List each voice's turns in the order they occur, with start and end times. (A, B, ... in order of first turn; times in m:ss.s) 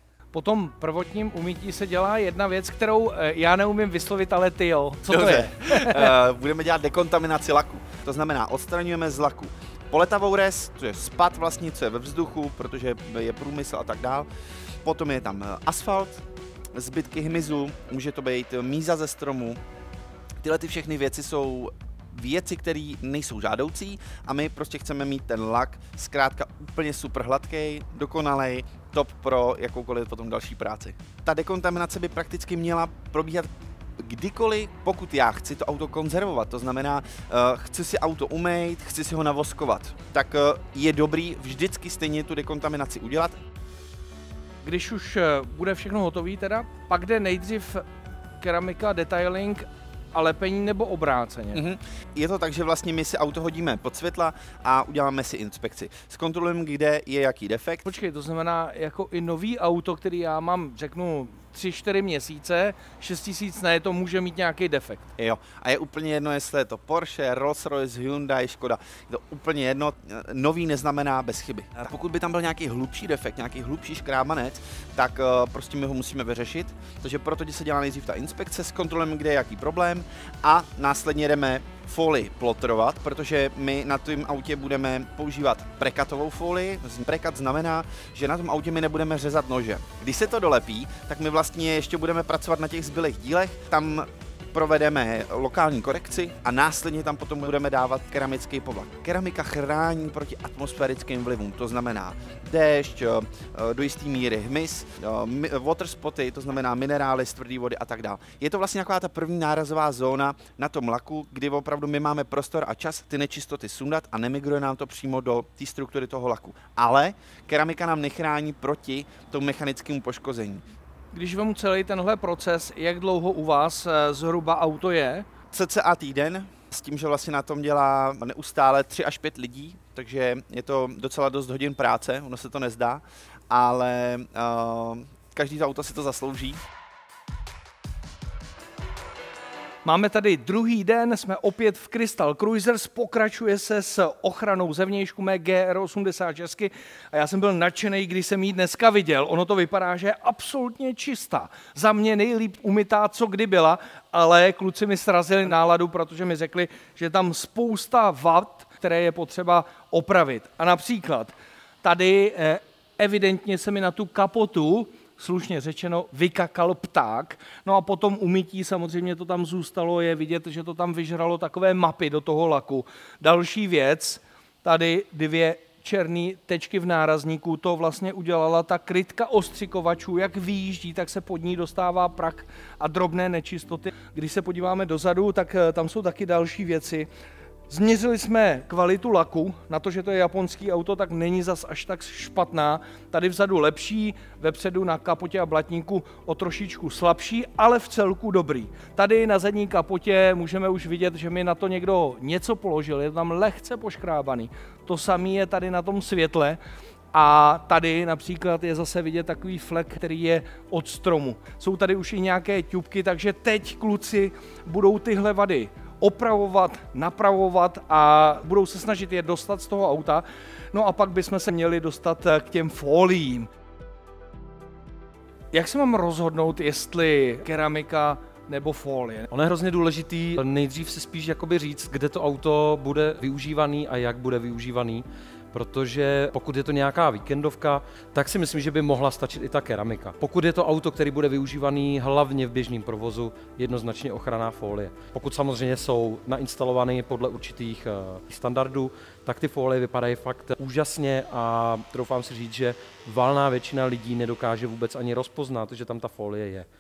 0:00.3-0:06.1 A
0:05.1-0:14.3 B
0:14.8-0:19.6 B
0:20.4-0:43.4 B
0:44.6-0:47.8 A
0:48.4-0:51.6 A
0:51.5-0:57.8 B
0:57.8-1:05.1 A
1:05.2-2:00.6 B
2:01.1-2:05.3 A
2:05.5-2:16.6 B
2:19.8-3:07.1 A
3:07.7-3:26.6 A
3:27.1-3:43.5 A
3:45.5-3:49.3 A
3:49.3-4:16.7 C